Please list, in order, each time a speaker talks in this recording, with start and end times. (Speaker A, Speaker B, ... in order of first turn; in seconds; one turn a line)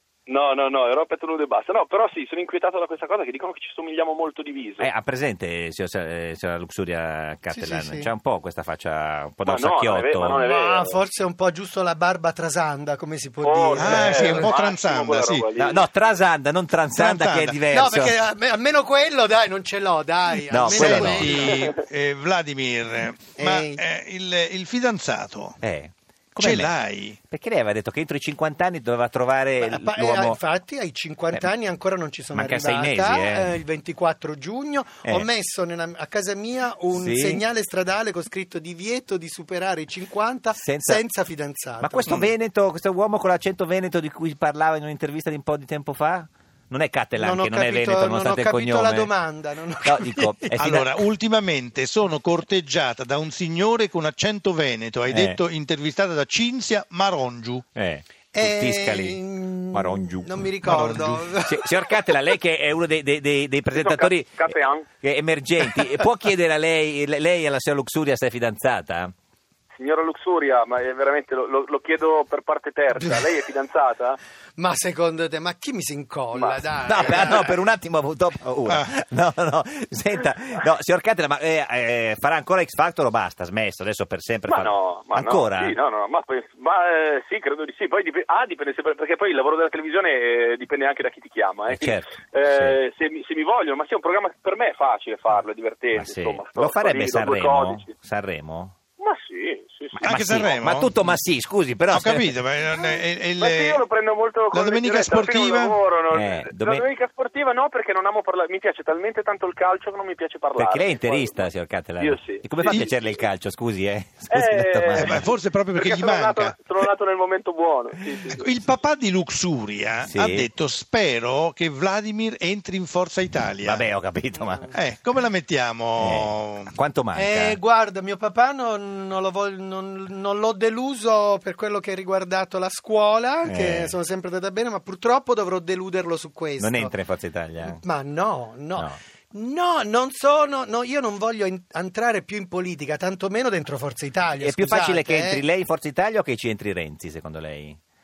Speaker A: 0.3-4.9
Speaker B: 4.8-10.4
Speaker C: 7.5-8.1
Speaker A: 9.4-11.0
Speaker C: 10.3-14.5
Speaker A: 13.4-15.9
Speaker D: 13.8-15.5
Speaker B: 15.6-18.2
Speaker D: 16.9-17.6
Speaker C: 17.7-21.7
Speaker B: 20.5-21.5
Speaker D: 20.6-25.6
Speaker C: 23.4-23.8
Speaker B: 25.6-26.7
Speaker D: 26.4-27.2
Speaker B: 27.3-30.4
Speaker C: 29.6-42.3
Speaker B: 32.3-33.6
Speaker B: 36.9-37.4
Speaker B: 40.5-41.0
Speaker B: 41.8-49.1
Speaker C: 47.2-50.8
Speaker B: 49.8-50.9
Speaker D: 50.6-57.6
Speaker B: 55.1-55.4
Speaker B: 57.8-60.8
Speaker C: 58.3-62.0
Speaker D: 60.6-61.3
Speaker B: 61.4-69.1
Speaker A: 63.7-64.9
Speaker A: 69.7-74.2
Speaker C: 73.0-73.3
Speaker C: 74.6-77.6
Speaker A: 76.3-76.6
Speaker B: 76.8-85.8
Speaker D: 78.7-78.9
Speaker A: 84.5-97.9
Speaker B: 91.7-92.8
Speaker B: 95.9-98.7
Speaker A: 99.0-100.0
Speaker D: 99.9-101.0
Speaker B: 100.0-102.4
Speaker D: 101.9-103.8
Speaker A: 103.4-111.5
Speaker D: 104.5-105.8
Speaker B: 106.1-106.8
Speaker B: 110.6-115.3
Speaker A: 112.0-112.9
Speaker A: 114.3-115.2
Speaker D: 115.0-116.6
Speaker A: 115.7-118.4
Speaker D: 118.3-123.8
Speaker B: 120.0-120.5
Speaker B: 123.6-124.7
Speaker D: 124.7-126.7
Speaker B: 126.0-127.6
Speaker C: 127.1-136.9
Speaker B: 133.4-133.9
Speaker B: 136.6-137.8
Speaker C: 137.6-145.4
Speaker B: 144.4-147.8